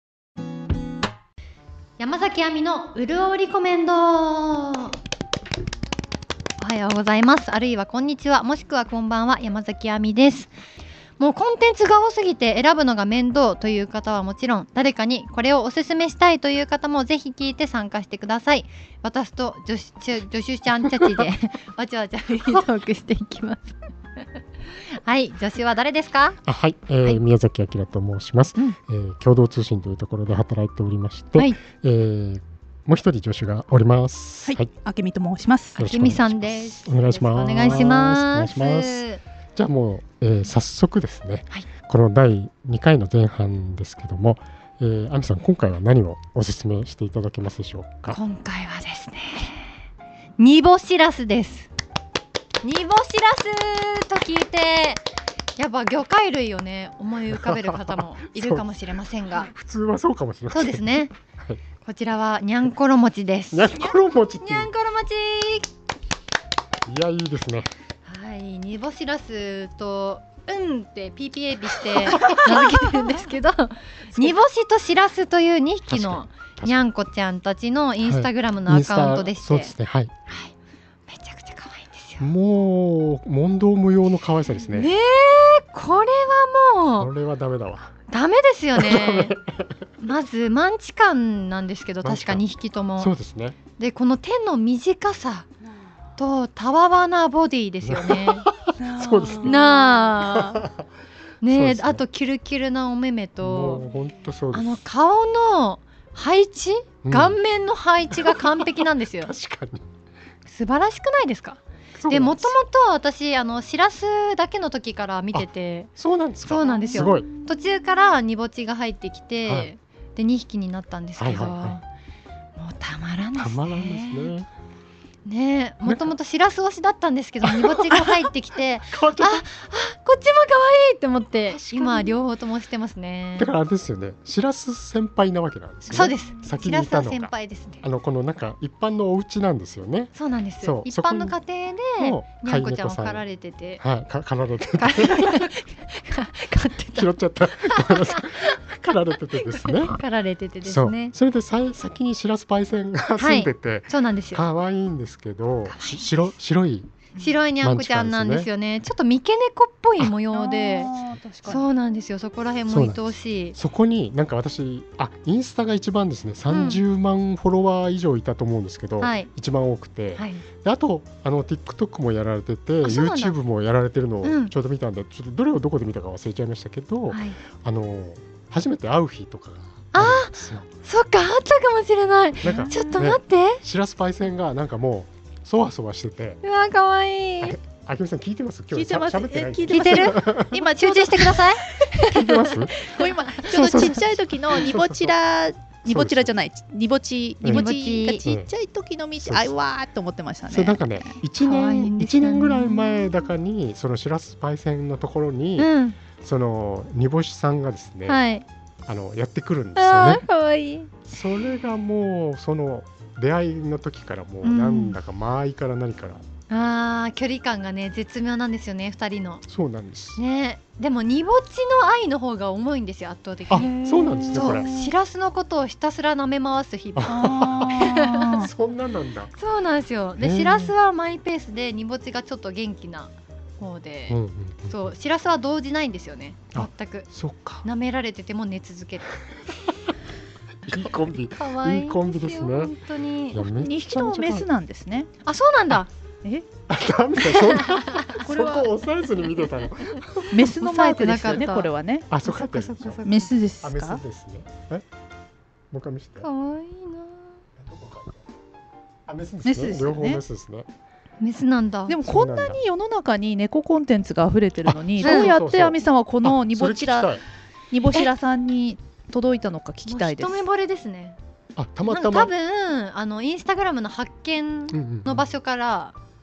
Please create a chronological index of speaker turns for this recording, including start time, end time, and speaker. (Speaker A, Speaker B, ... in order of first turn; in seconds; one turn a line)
Speaker A: 2.0-5.0
Speaker A: 6.6-10.5
Speaker A: 11.2-23.8
Speaker A: 25.0-26.4
Speaker B: 26.4-34.7
Speaker A: 31.4-31.6
Speaker C: 34.5-35.8
Speaker A: 35.8-39.2
Speaker B: 35.8-39.0
Speaker B: 39.6-48.2
Speaker A: 48.1-49.7
Speaker A: 50.4-51.7
Speaker A: 52.6-55.0
Speaker A: 55.6-59.5
Speaker B: 57.3-58.7
Speaker B: 59.4-61.6
Speaker A: 60.5-61.1
Speaker A: 61.8-65.7
Speaker B: 63.5-64.7
Speaker B: 66.9-67.7
Speaker A: 68.1-79.7
Speaker B: 72.1-72.7
Speaker B: 75.9-76.8
Speaker B: 78.0-80.1
Speaker A: 81.1-82.3
Speaker B: 82.2-84.9
Speaker A: 84.7-87.1
Speaker B: 87.0-87.9
Speaker A: 88.1-89.4
Speaker B: 88.8-89.8
Speaker A: 90.0-93.1
Speaker B: 92.0-92.5
Speaker B: 93.0-93.6
Speaker A: 93.8-95.5
Speaker A: 96.2-100.6
Speaker B: 97.8-99.6
Speaker C: 98.8-99.6
Speaker B: 100.2-100.8
Speaker A: 101.4-103.8
Speaker B: 101.5-102.0
Speaker B: 103.4-104.8
Speaker A: 104.5-109.3
Speaker B: 107.0-107.4
Speaker B: 108.1-109.8
Speaker A: 110.5-115.9
Speaker B: 112.0-112.5
Speaker B: 116.0-117.3
Speaker A: 116.5-121.8
Speaker C: 116.6-117.0
Speaker B: 119.5-119.7
Speaker B: 121.2-121.8
Speaker A: 122.6-124.3
Speaker B: 123.4-124.5
Speaker A: 125.3-133.5
Speaker B: 125.8-126.1
Speaker B: 127.4-128.3
Speaker B: 128.9-129.5
Speaker B: 131.5-132.2
Speaker B: 133.4-141.4
Speaker A: 135.9-137.8
Speaker A: 140.2-143.8
Speaker B: 141.9-143.2
Speaker B: 143.8-145.5
Speaker A: 144.8-148.6
Speaker B: 146.9-150.0
Speaker A: 149.4-151.1
Speaker B: 150.6-158.5
Speaker A: 153.2-154.5
Speaker A: 155.7-156.2
Speaker A: 157.2-160.9
Speaker C: 160.3-161.7
Speaker A: 161.4-163.6
Speaker B: 162.7-163.0
Speaker B: 163.6-180.7
Speaker A: 166.5-166.8
Speaker A: 169.0-169.3
Speaker A: 170.2-170.4
Speaker A: 172.8-173.4
Speaker A: 174.2-174.5
Speaker A: 177.1-177.4
Speaker A: 179.9-183.6
Speaker B: 182.4-186.4
Speaker C: 182.4-183.1
Speaker A: 186.4-187.6
Speaker B: 187.4-190.7
Speaker C: 188.7-192.1
Speaker A: 189.7-192.7
Speaker B: 192.0-192.8
Speaker C: 192.7-201.2
Speaker B: 193.4-195.2
Speaker B: 195.9-196.4
Speaker B: 197.4-197.7
Speaker A: 197.4-198.3
Speaker B: 198.2-198.5
Speaker B: 199.2-199.5
Speaker B: 200.5-208.2
Speaker A: 201.4-203.2
Speaker A: 205.6-206.0
Speaker A: 208.1-208.4
Speaker B: 208.9-210.2
Speaker A: 209.8-211.1
Speaker B: 211.1-216.2
Speaker A: 214.4-215.0
Speaker A: 216.5-219.4
Speaker B: 219.5-220.2
Speaker A: 220.2-223.7
Speaker B: 223.5-224.7
Speaker C: 223.5-224.9
Speaker A: 224.3-228.5
Speaker B: 226.9-229.3
Speaker C: 227.1-228.5
Speaker A: 229.4-234.2
Speaker B: 230.2-230.7
Speaker B: 234.1-234.9
Speaker A: 234.7-237.1
Speaker B: 236.5-237.7
Speaker A: 237.6-239.2
Speaker B: 240.7-242.7
Speaker A: 241.3-243.4
Speaker B: 243.3-244.5
Speaker C: 243.4-245.1
Speaker A: 245.2-245.9
Speaker B: 246.7-250.5
Speaker A: 247.3-248.2
Speaker C: 248.2-248.7
Speaker C: 250.3-252.1
Speaker A: 250.6-251.7
Speaker B: 252.1-253.0
Speaker A: 252.2-253.3
Speaker C: 253.1-254.0
Speaker B: 253.6-254.8
Speaker B: 255.7-256.3
Speaker A: 256.2-257.4
Speaker B: 257.6-258.2
Speaker B: 259.1-260.7
Speaker C: 259.4-260.2
Speaker A: 261.2-262.0
Speaker C: 261.9-267.1
Speaker B: 262.0-262.6
Speaker B: 264.7-267.2
Speaker A: 265.0-265.4
Speaker C: 267.7-270.4
Speaker A: 269.9-271.2
Speaker B: 271.6-272.3
Speaker A: 271.9-275.9
Speaker B: 274.7-275.3